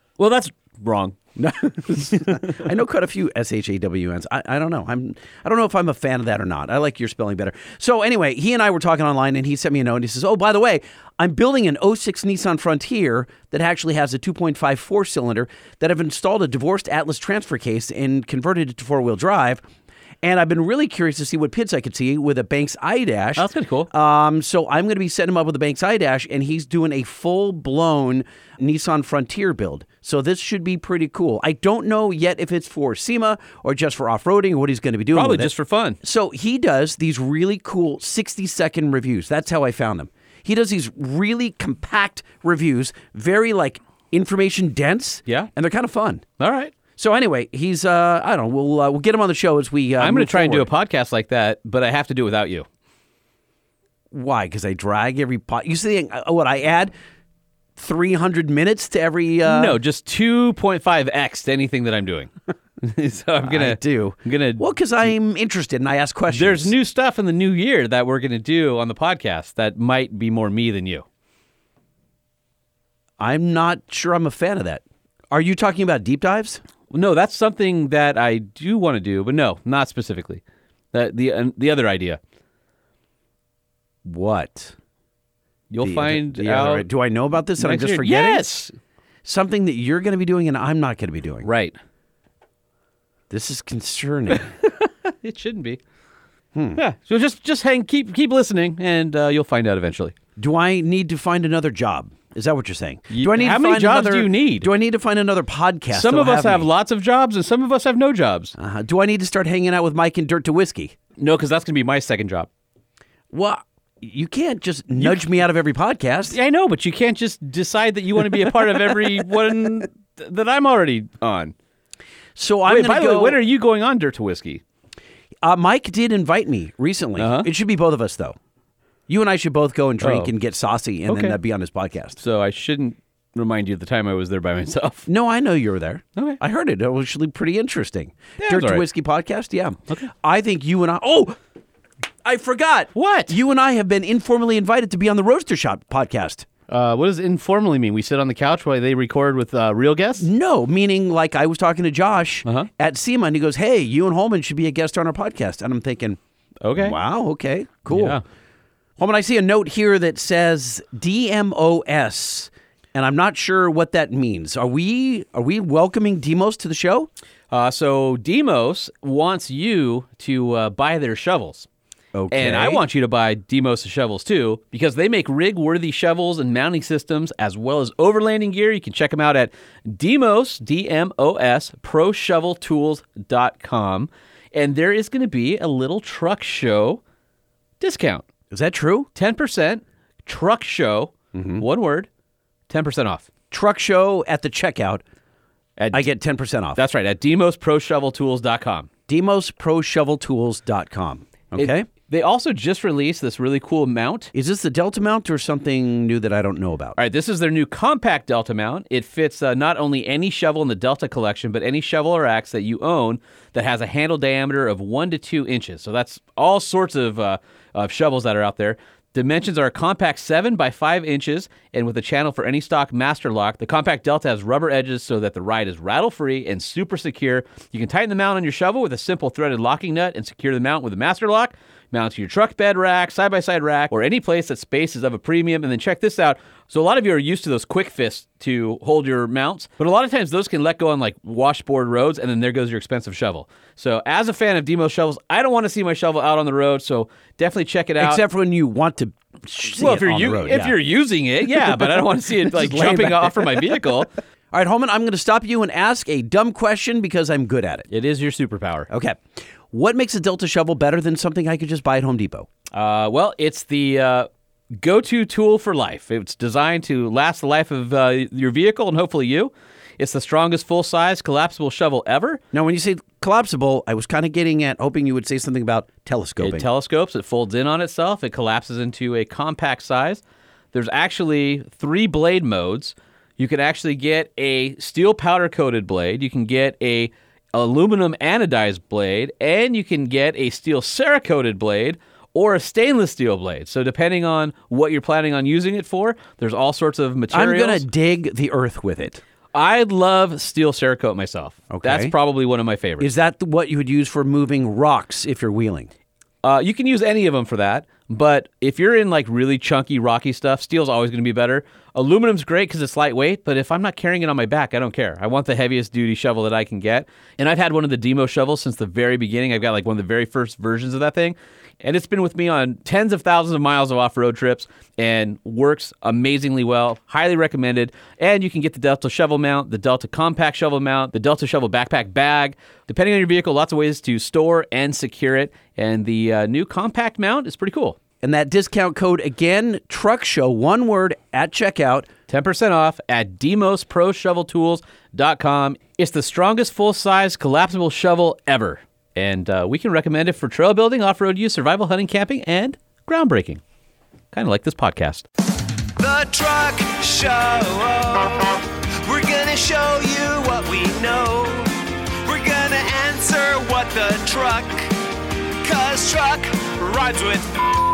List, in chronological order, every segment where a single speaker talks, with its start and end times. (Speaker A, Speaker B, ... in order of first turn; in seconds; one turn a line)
Speaker A: 0.2-1.1
Speaker B: 1.4-19.6
Speaker A: 2.1-2.4
Speaker B: 20.2-46.2
Speaker A: 23.4-23.9
Speaker A: 35.1-36.0
Speaker A: 46.4-46.7
Speaker B: 47.0-50.7
Speaker A: 50.0-52.6
Speaker B: 54.1-56.9
Speaker B: 57.8-59.7
Speaker A: 59.4-64.6
Speaker B: 63.4-66.7
Speaker A: 66.3-71.0
Speaker B: 73.2-76.6
Speaker A: 76.9-80.4
Speaker A: 80.9-82.2
Speaker B: 84.0-84.7
Speaker A: 85.7-86.8
Speaker B: 85.8-88.5
Speaker A: 87.6-88.7
Speaker B: 89.2-91.5
Speaker A: 91.4-91.7
Speaker B: 93.3-94.5
Speaker A: 94.6-95.8
Speaker B: 96.5-96.8
Speaker A: 96.8-100.1
Speaker B: 100.4-106.7
Speaker A: 103.1-104.7
Speaker A: 105.9-108.5
Speaker B: 108.6-111.0
Speaker A: 111.2-112.5
Speaker B: 113.3-116.3
Speaker A: 115.0-115.3
Speaker A: 116.3-121.5
Speaker B: 122.3-123.4
Speaker A: 122.7-124.6
Speaker B: 125.4-128.3
Speaker A: 127.2-127.5
Speaker B: 129.1-132.2
Speaker A: 130.0-130.3
Speaker A: 131.1-131.4
Speaker A: 132.2-135.1
Speaker B: 135.1-141.3
Speaker A: 138.4-138.8
Speaker B: 142.2-146.4
Speaker A: 142.9-143.3
Speaker A: 146.7-150.3
Speaker B: 150.2-156.2
Speaker A: 156.6-156.9
Speaker B: 156.8-158.2
Speaker A: 157.9-158.2
Speaker B: 159.0-167.1
Speaker A: 167.5-171.7
Speaker B: 172.1-172.8
Speaker A: 172.3-187.0
Speaker A: 187.8-188.3
Speaker B: 188.5-189.1
Speaker A: 189.1-192.1
Speaker B: 191.3-191.6
Speaker A: 192.7-193.3
Speaker B: 193.5-195.0
Speaker A: 195.8-196.1
Speaker B: 195.9-196.8
Speaker A: 196.8-198.9
Speaker B: 199.1-201.9
Speaker A: 201.6-204.3
Speaker B: 204.3-207.0
Speaker A: 207.0-248.2
Speaker B: 248.0-250.7
Speaker A: 249.8-254.1
Speaker B: 252.5-253.5
Speaker B: 254.5-257.9
Speaker A: 257.9-258.9
Speaker B: 258.9-262.5
Speaker A: 262.7-272.4
Speaker B: 272.5-276.7
Speaker A: 276.4-280.2
Speaker A: 280.7-297.8
Speaker B: 297.3-299.2
Speaker A: 299.5-303.1
Speaker B: 301.7-302.1
Speaker B: 303.0-305.9
Speaker A: 306.4-338.0
Speaker B: 338.2-342.1
Speaker A: 342.3-353.6
Speaker A: 354.3-355.2
Speaker C: 356.0-361.7
Speaker C: 362.2-364.9
Speaker C: 365.6-367.7